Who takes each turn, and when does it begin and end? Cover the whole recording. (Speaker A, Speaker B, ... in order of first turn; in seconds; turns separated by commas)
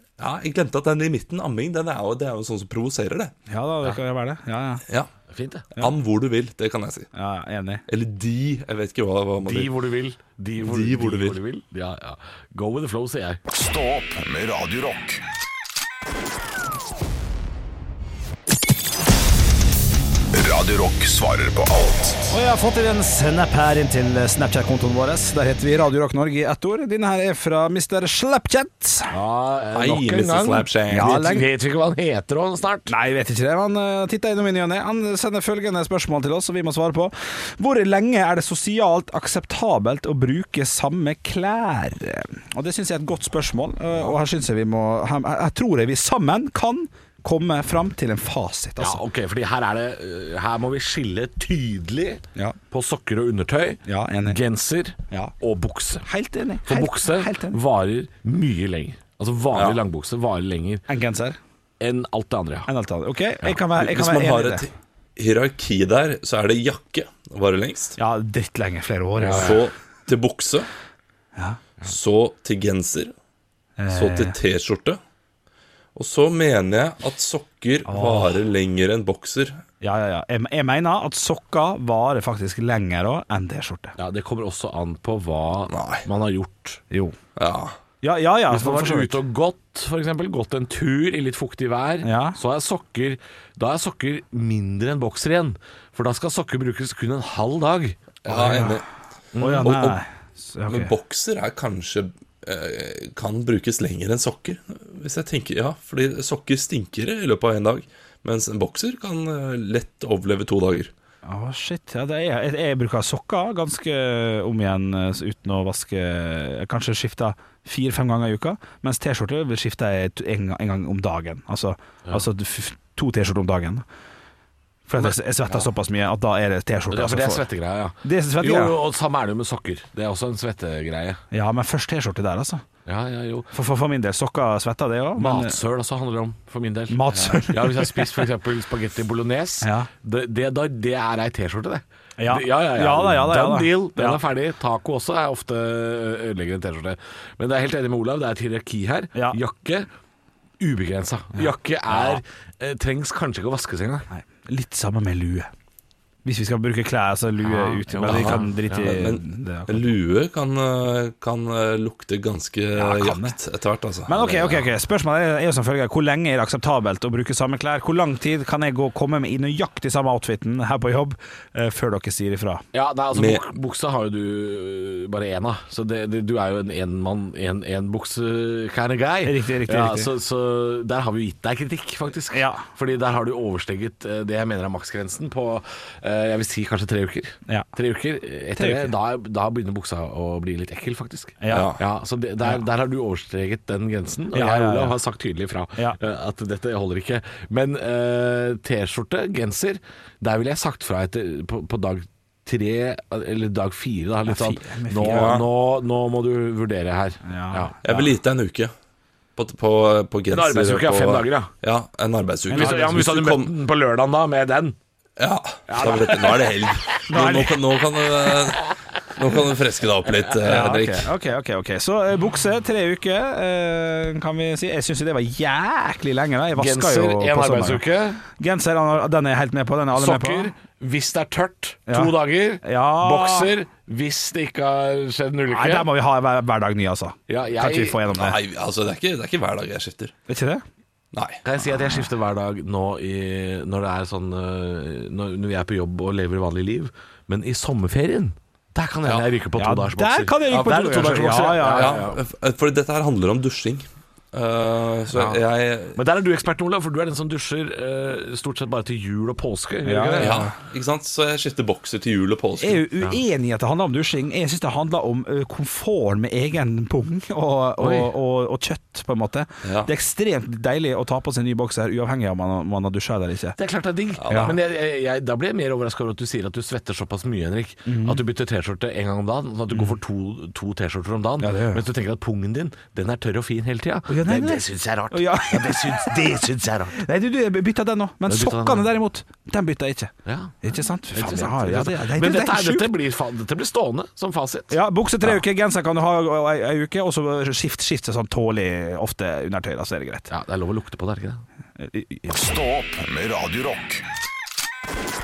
Speaker A: 0.2-3.3, Speaker B: 3.5-4.8, Speaker C: 5.3-5.7, Speaker A: 5.8-7.1, Speaker B: 7.1-7.8, Speaker A: 7.9-9.7, Speaker C: 9.4-13.4, Speaker A: 10.6-11.4, Speaker D: 13.5-15.2, Speaker D: 20.3-22.3, Speaker B: 22.3-29.1, Speaker C: 29.1-32.9, Speaker A: 29.7-31.2, Speaker B: 30.9-31.5, Speaker B: 32.9-49.0, Speaker C: 48.8-56.1, Speaker B: 53.9-54.4, Speaker B: 56.0-57.6, Speaker C: 56.6-60.8, Speaker A: 59.5-59.8, Speaker B: 60.9-61.4, Speaker C: 61.8-62.7, Speaker B: 62.7-64.7, Speaker A: 63.4-68.0, Speaker B: 68.0-69.6, Speaker C: 69.2-69.6, Speaker A: 69.3-70.7, Speaker A: 71.8-73.1, Speaker B: 73.8-74.3, Speaker A: 73.9-75.0, Speaker A: 75.9-79.6, Speaker B: 77.9-78.4, Speaker B: 79.8-84.0, Speaker C: 84.0-86.8, Speaker A: 85.7-86.0, Speaker B: 86.9-87.2, Speaker A: 87.4-87.8, Speaker B: 88.0-89.2, Speaker C: 88.5-98.7, Speaker B: 92.0-92.4, Speaker A: 98.2-98.8, Speaker B: 98.3-98.8, Speaker C: 99.3-99.7, Speaker B: 99.4-100.9, Speaker A: 99.6-100.0, Speaker A: 100.7-110.9, Speaker B: 111.2-123.8, Speaker B: 124.9-127.5, Speaker C: 125.0-125.7, Speaker C: 126.9-131.2, Speaker B: 128.0-128.7, Speaker B: 131.3-132.6, Speaker C: 132.9-133.5, Speaker B: 133.5-135.6, Speaker C: 135.2-149.9, Speaker B: 136.9-138.3, Speaker B: 139.6-139.9, Speaker B: 142.2-144.2, Speaker C: 150.6-154.1, Speaker B: 154.1-155.5, Speaker B: 156.2-159.9, Speaker C: 157.4-158.6, Speaker A: 158.0-164.1, Speaker B: 162.7-163.4, Speaker B: 164.1-172.6, Speaker C: 164.1-164.7, Speaker C: 172.7-207.7, Speaker A: 173.1-173.4, Speaker B: 179.2-180.1, Speaker B: 182.3-182.7, Speaker B: 188.6-188.9, Speaker B: 191.4-191.8, Speaker A: 191.5-191.8, Speaker B: 194.3-194.9, Speaker B: 204.3-205.4, Speaker A: 205.1-205.4, Speaker B: 207.2-208.1, Speaker A: 207.8-208.7, Speaker A: 209.4-213.5, Speaker C: 210.3-211.5, Speaker B: 212.5-213.0, Speaker C: 212.5-214.8, Speaker A: 215.2-221.1, Speaker B: 215.7-216.5, Speaker B: 217.1-217.6, Speaker B: 220.4-230.5, Speaker C: 226.6-228.2, Speaker C: 229.9-235.9, Speaker B: 231.9-233.5, Speaker B: 235.5-238.4, Speaker C: 237.3-238.0, Speaker A: 238.1-240.1, Speaker B: 240.3-240.6, Speaker A: 241.1-241.4, Speaker C: 241.4-252.2, Speaker B: 249.6-252.0, Speaker A: 251.6-256.0, Speaker C: 255.1-255.4, Speaker C: 255.9-260.4, Speaker B: 259.8-260.5, Speaker A: 260.2-262.8, Speaker B: 262.6-273.6, Speaker C: 267.8-268.1, Speaker A: 269.6-269.9, Speaker C: 273.6-287.0, Speaker A: 274.2-274.5, Speaker B: 274.3-274.6, Speaker B: 277.9-278.2, Speaker B: 281.4-281.8, Speaker B: 284.1-292.9, Speaker C: 288.3-288.9, Speaker C: 290.2-290.6, Speaker C: 291.1-295.4, Speaker B: 294.7-300.3, Speaker C: 300.3-301.4, Speaker B: 301.8-302.3, Speaker D: 302.3-304.0